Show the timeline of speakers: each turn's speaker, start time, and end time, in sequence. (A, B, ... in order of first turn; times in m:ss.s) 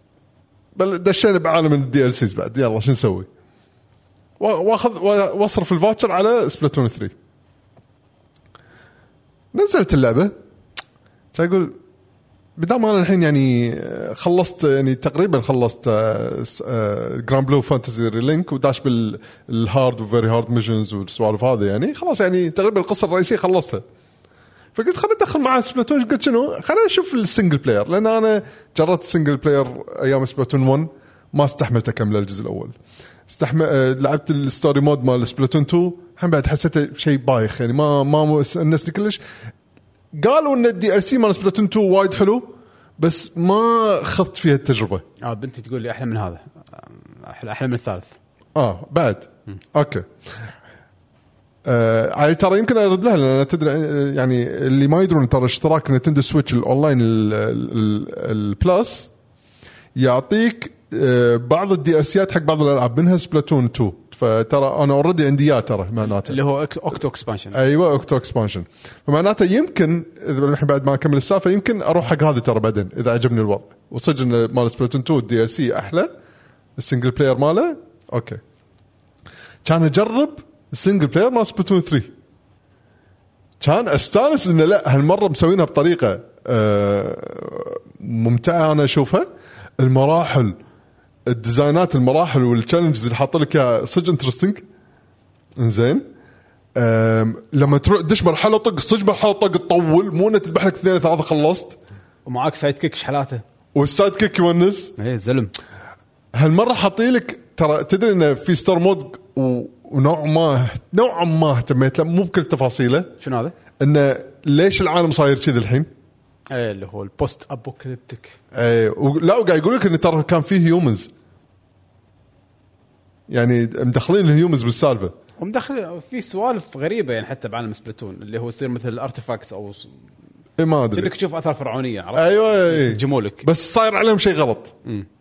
0:00.7-0:03.3 A
0:04.4-0:07.1 A
0:09.5-0:10.3 A
0:11.3-0:11.8 A
0:12.6-0:23.8 A
0:24.7-0:32.7 A
0:33.3-0:39.2 A
0:40.1-0:45.0 A
0:45.2-0:48.1 B
0:48.5-0:50.1 A
0:51.6-0:59.1 A
1:00.0-1:06.4 A
1:06.1-1:07.6 B
1:07.5-1:16.1 A
1:16.8-1:18.4 A
1:19.6-1:22.1 A
1:23.6-1:29.3 A
1:29.8-1:30.6 A
1:31.2-1:34.6 A
1:35.6-1:36.1 A
1:36.8-1:41.8 A
1:42.2-1:43.4 B
1:43.7-1:44.9 A
1:45.0-1:45.5 B
1:46.3-1:53.1 A
1:53.2-1:53.5 B
1:53.8-1:55.9 A
1:56.5-1:58.4 B
1:58.5-2:01.1 A
2:03.3-2:05.1 A
2:05.4-2:09.9 B
2:10.6-2:11.1 A
2:10.9-2:13.5 B
2:12.1-2:14.7 A